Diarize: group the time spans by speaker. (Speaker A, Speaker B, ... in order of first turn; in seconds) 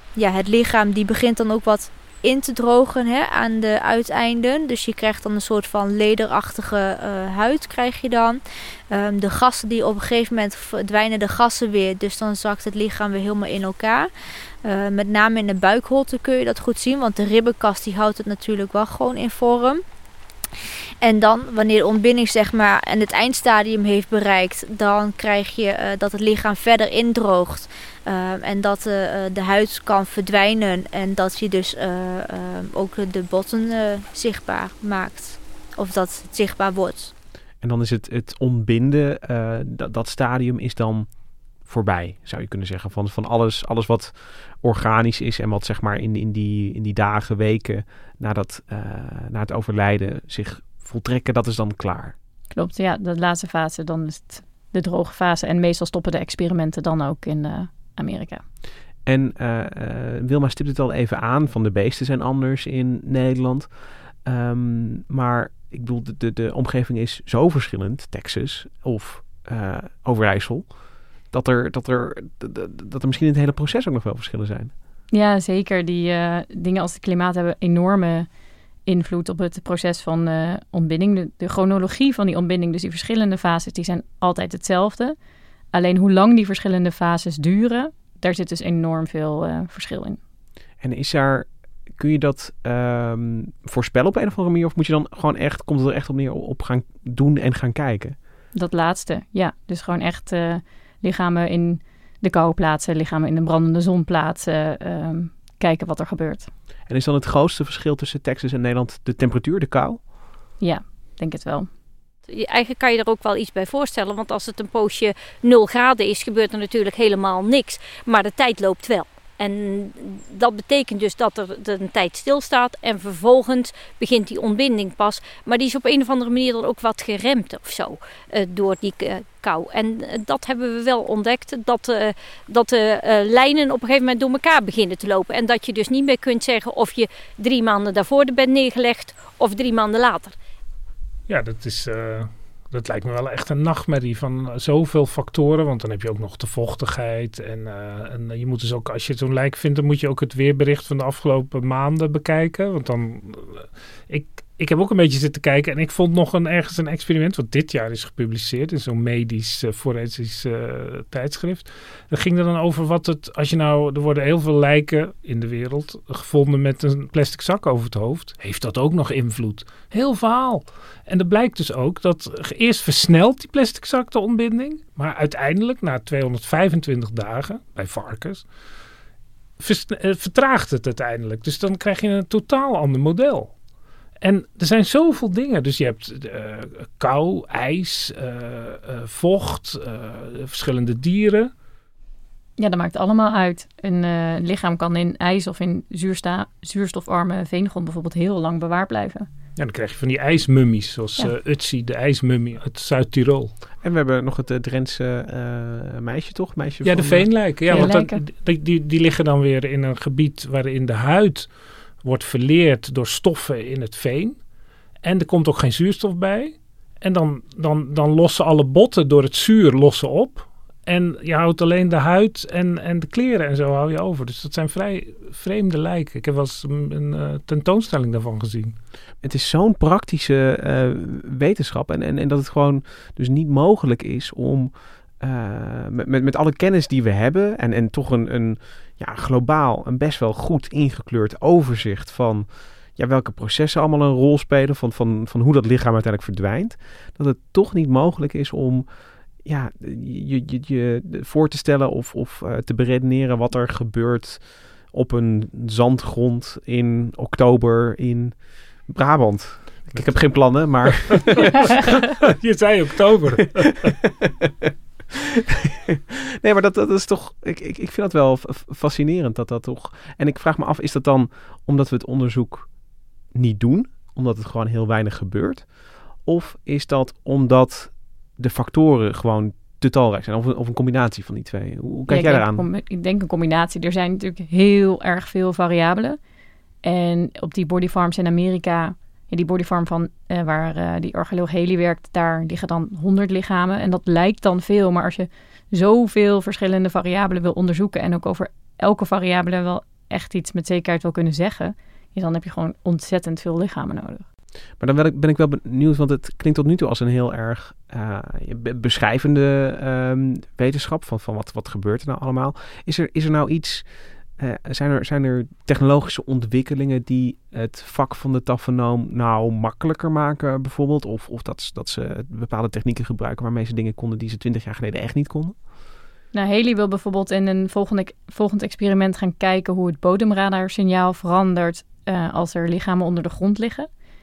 Speaker A: 0.2-8.4, 8.9-14.1, 14.6-19.8, 21.0-37.1
Speaker B: 37.6-41.1, 41.6-52.1, 59.0-74.7, 90.8-98.2, 106.9-110.0, 203.8-207.9, 229.2-248.9, 249.4-261.6, 263.9-264.7, 265.6-272.8, 273.3-282.7, 304.8-325.6
Speaker C: 52.5-58.4, 75.1-78.3, 78.8-85.2, 85.7-90.2, 98.5-106.5, 110.6-111.7, 192.6-199.3, 207.7-208.2, 282.1-286.2, 286.8-304.2, 326.3-333.9
Speaker D: 112.3-140.4
Speaker E: 141.3-178.5, 179.6-183.5, 184.2-191.5, 199.6-203.5, 206.8-214.4, 215.0-228.8, 259.9-264.0